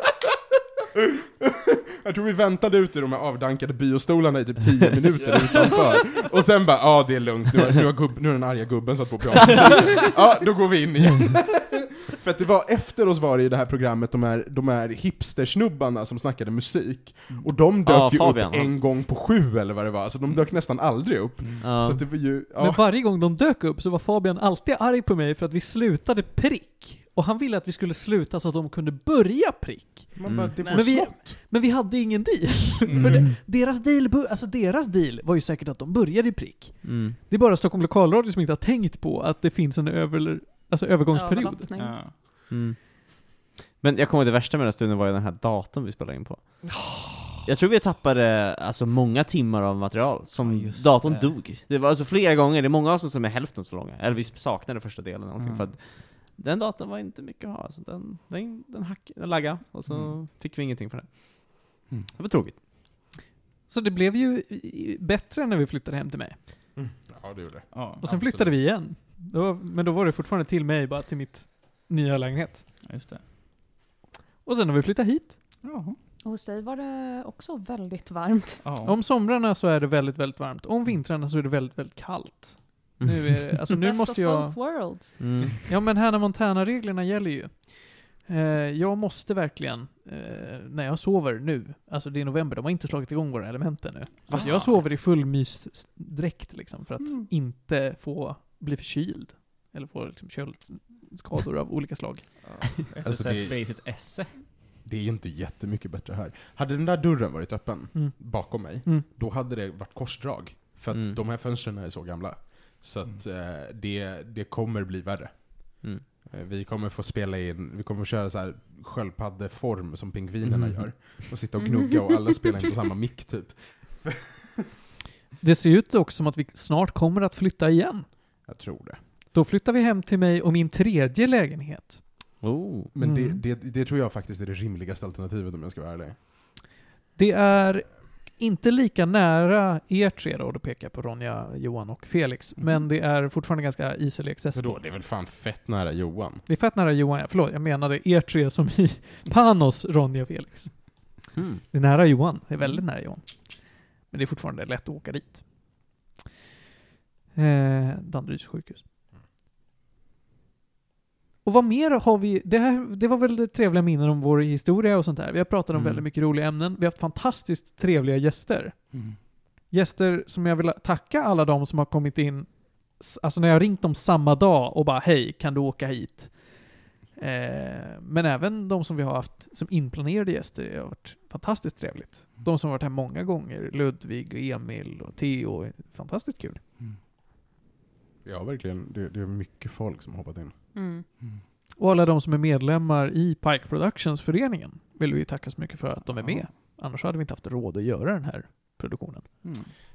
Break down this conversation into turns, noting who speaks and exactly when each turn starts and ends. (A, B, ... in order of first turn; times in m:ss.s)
0:01.0-0:22.8 A
0:17.8-0:18.7 B
0:21.6-0:22.0 B
0:22.6-0:41.7 C
0:30.2-0:31.4 A
0:30.3-0:30.6 B
0:32.9-0:33.2 D
0:36.8-0:37.2 B
0:41.1-0:42.1 E
0:41.7-0:42.1 D
0:42.5-0:46.7 B
0:47.4-1:02.6 B
0:50.4-0:51.4 D
0:55.4-0:55.7 D
0:59.9-1:00.2 D
1:03.7-1:06.4 C
1:06.8-1:08.6 A
1:07.7-1:08.0 D
1:08.0-1:12.7 C
1:12.8-1:13.2 D
1:14.4-1:15.4 C
1:15.6-1:16.0 D
1:16.2-1:18.6 E
1:18.6-1:19.0 D
1:18.8-1:42.6 C
1:23.0-1:23.6 B
1:23.8-1:25.2 E
1:25.2-1:25.7 B
1:34.3-1:34.5 B
1:34.3-1:34.8 D
1:42.4-1:44.4 D
1:43.0-1:43.6 A
1:44.8-2:04.5 A
1:47.9-1:49.1 C
1:50.9-1:51.2 B
2:00.5-2:00.8 B
2:01.6-2:02.4 E
2:05.4-2:08.1 C
2:08.4-2:09.0 A
2:09.3-2:12.4 C
2:12.4-2:12.9 B
2:12.9-2:16.2 A
2:13.0-2:13.4 C
2:17.2-2:24.8 C
2:24.5-2:26.4 A
2:26.4-2:35.7 C
2:31.4-2:31.6 B
2:37.4-2:38.8 C
2:41.4-3:06.6 C
3:08.2-3:10.6 A
3:10.7-3:11.1 E
3:11.8-3:19.3 C
3:16.2-3:16.4 D
3:19.4-3:19.7 D